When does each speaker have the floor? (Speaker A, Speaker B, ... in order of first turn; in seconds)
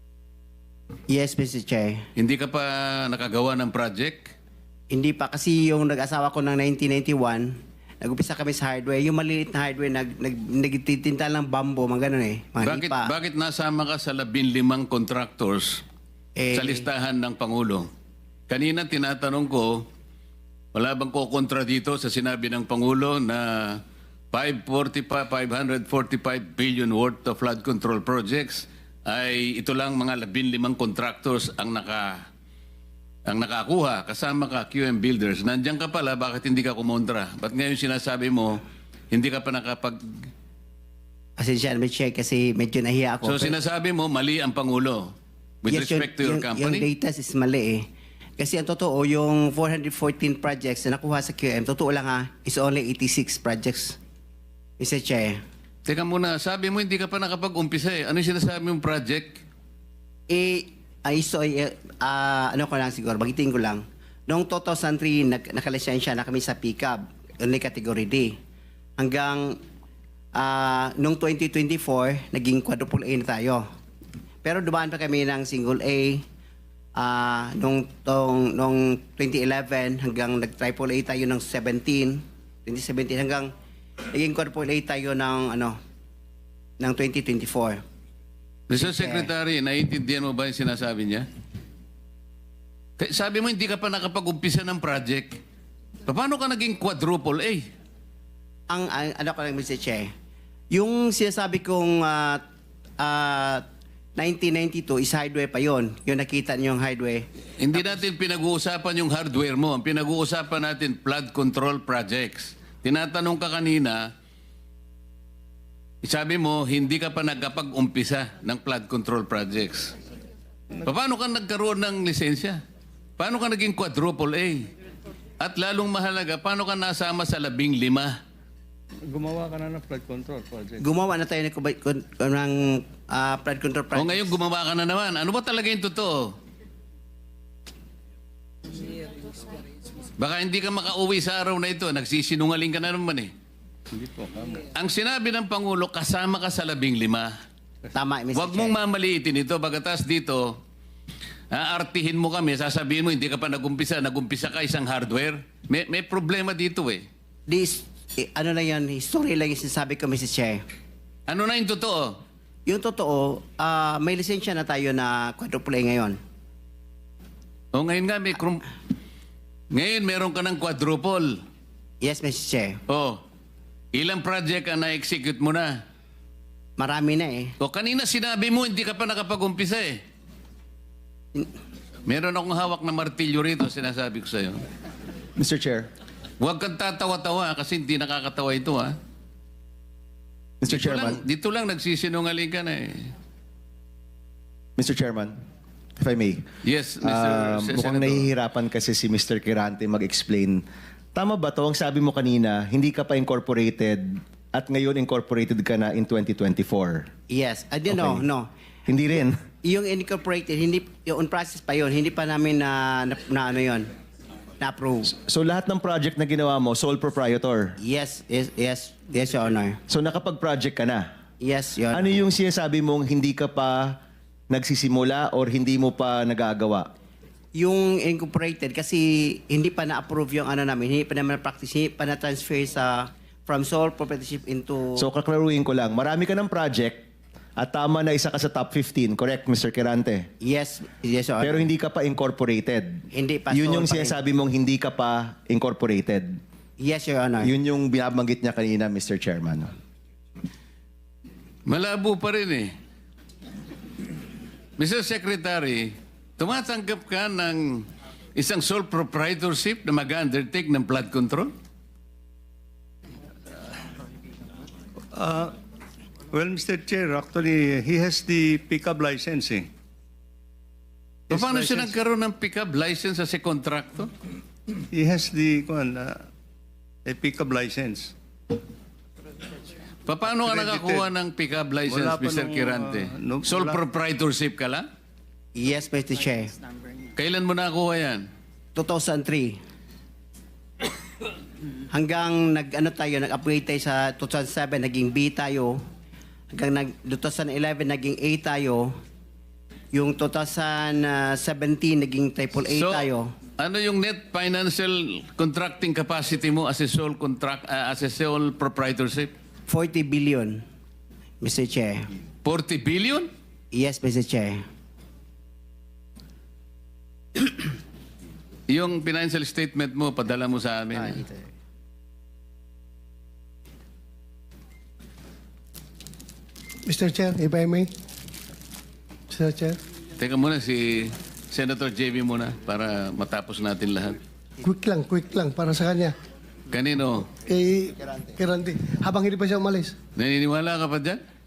Speaker A: 1.1-2.0, 4.9-13.1, 16.4-16.9, 41.4-43.5, 45.7-47.9, 48.4-54.0, 54.8-55.4, 60.3-68.3, 69.0-69.6, 70.3-73.6, 74.4-76.2, 77.0-83.5, 84.1-85.8, 86.8-87.8, 88.8-89.3, 98.7-100.1, 100.7-102.4, 103.0-103.6, 104.2-107.2, 130.8-134.3, 147.9-148.8, 157.5-160.6, 162.7-166.2, 172.0-172.8, 176.8-177.5, 207.3-208.5, 209.6-213.9, 214.6-215.1, 217.8-219.8, 221.4-222.2, 227.5-235.0, 240.4-241.7, 243.1-244.2, 246.8-247.5, 285.5-286.5, 288.7-289.6, 291.9-295.8, 296.5-298.9, 299.9-303.3, 309.7-310.6, 311.4-312.1, 313.7-314.6, 320.9-321.4
Speaker B: 2.1-4.3, 12.6-15.8, 16.5-17.9, 18.5-19.9, 20.7-32.2, 33.3-40.2, 43.2-46.9, 55.9-59.4, 88.7-91.2, 93.0-95.4, 96.1-97.7, 107.6-114.1, 116.0-119.9, 120.8-122.6, 123.2-124.7, 125.4-128.2, 133.9-136.3, 140.2-143.3, 144.7-147.3, 148.3-150.6, 151.5-157.0, 161.3-162.2, 167.7-168.7, 169.7-171.4, 172.9-173.2, 173.9-175.8, 177.6-180.0, 182.1-184.6, 186.4-188.9, 190.7-193.1, 196.6-198.3, 251.7-252.7, 254.8-261.5, 271.3-274.1, 280.1-284.9, 287.1-288.2, 302.7-303.1, 303.6-309.3, 312.4-313.3, 318.7-321.2, 330.2-334.2, 336.7-337.3, 340.2-341.2
Speaker C: 129.1-130.8, 144.0-144.5, 265.1-265.5, 266.3-269.7, 271.3-271.9, 274.9-276.1, 277.1-278.1, 280.3-281.1, 281.9-283.8
Speaker D: 185.4-185.9, 190.6-191.2, 194.8-195.3, 196.0-196.4, 197.0-207.1, 207.9-208.2, 208.9-209.4, 215.1-217.8, 219.9-221.1, 221.9-226.9, 234.9-240.3, 241.4-246.4, 247.4-249.7
Speaker E: 326.9-327.9, 329.3-329.8, 334.6-336.1, 337.5-339.9